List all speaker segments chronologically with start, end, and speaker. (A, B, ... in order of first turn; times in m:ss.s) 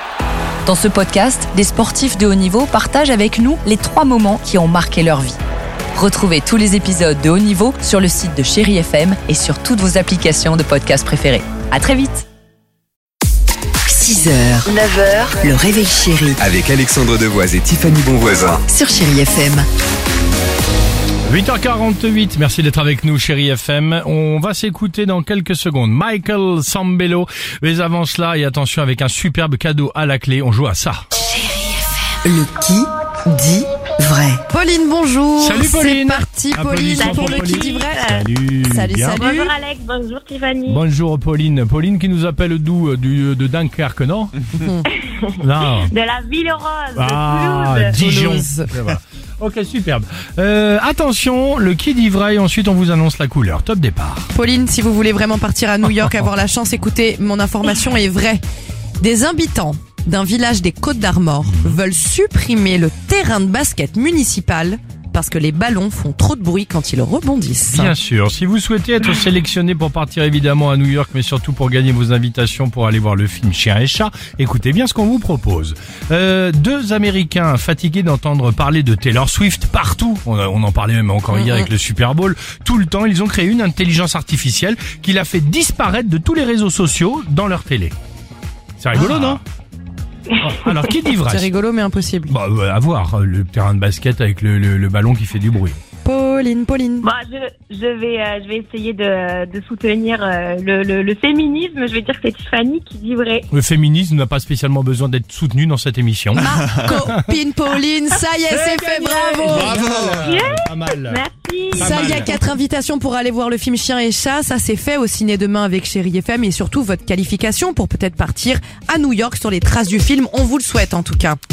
0:00.6-0:05.4 A
0:05.9-0:12.2 A
0:13.9-0:16.4 B
0:16.4-0:18.6 C
0:18.7-0:19.7 B
0:21.3-0:31.0 D
0:32.3-0:34.4 B
0:34.5-0:38.1 E
0:35.4-0:39.2 D
0:37.0-0:38.3 F
0:38.6-0:39.5 E
0:39.2-0:40.8 F
0:40.7-0:44.4 D
0:44.5-0:44.9 E
0:45.4-0:45.9 D
0:45.8-0:48.0 F
0:47.0-0:54.3 D
0:48.0-0:48.7 E
0:54.3-0:58.4 E
0:59.0-1:08.0 E
1:01.5-1:01.8 D
1:07.7-1:28.0 D
1:28.8-1:29.4 D
1:28.9-1:29.4 E
1:30.4-1:31.5 D
1:30.4-1:30.8 F
1:31.2-1:32.4 E
1:32.3-1:35.8 D
1:36.0-1:37.1 E
1:37.0-1:43.5 F
1:43.5-1:47.3 D
1:46.4-1:49.9 E
1:48.5-1:52.4 D
1:50.2-1:52.0 F
1:51.8-2:01.4 E